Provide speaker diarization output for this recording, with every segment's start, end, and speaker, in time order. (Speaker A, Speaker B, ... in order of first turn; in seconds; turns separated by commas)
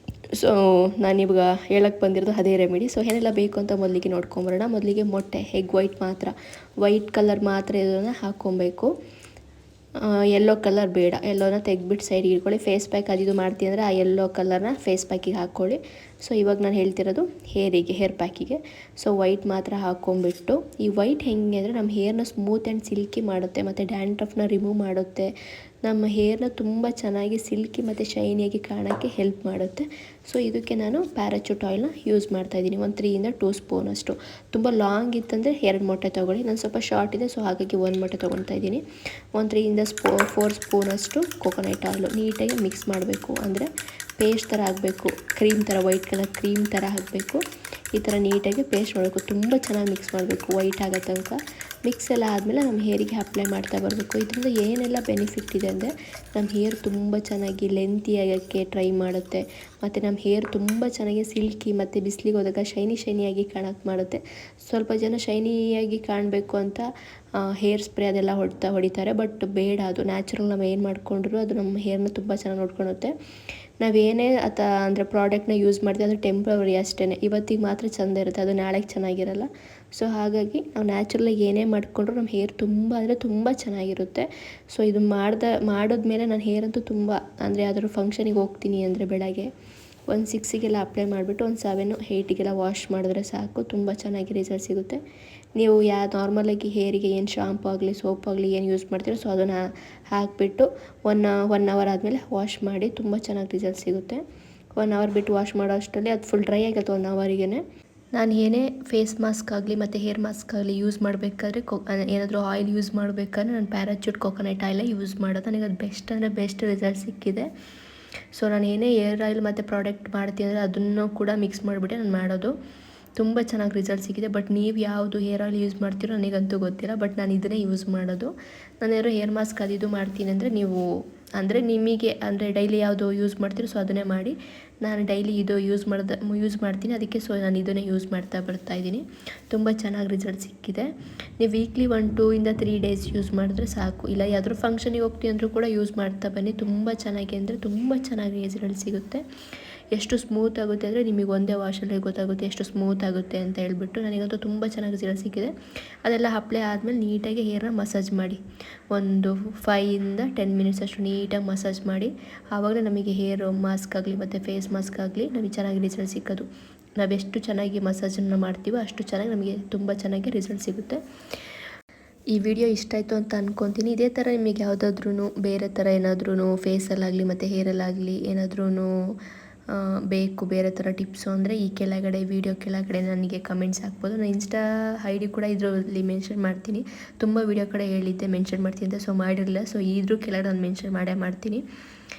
Speaker A: 0.3-8.9, Speaker A: 10.0-25.3, Speaker A: 25.8-38.8, Speaker A: 39.4-47.4, Speaker A: 48.0-66.9, Speaker A: 67.4-73.1, Speaker A: 73.8-89.5, Speaker A: 90.1-95.0, Speaker A: 95.6-104.2, Speaker A: 104.8-107.6, Speaker A: 108.2-117.5, Speaker A: 118.3-122.5, Speaker A: 123.2-130.8, Speaker A: 131.4-140.9, Speaker A: 141.4-149.2, Speaker A: 149.9-155.5, Speaker A: 156.0-158.4, Speaker A: 158.9-166.5, Speaker A: 167.0-171.0, Speaker A: 172.3-179.2, Speaker A: 179.7-191.6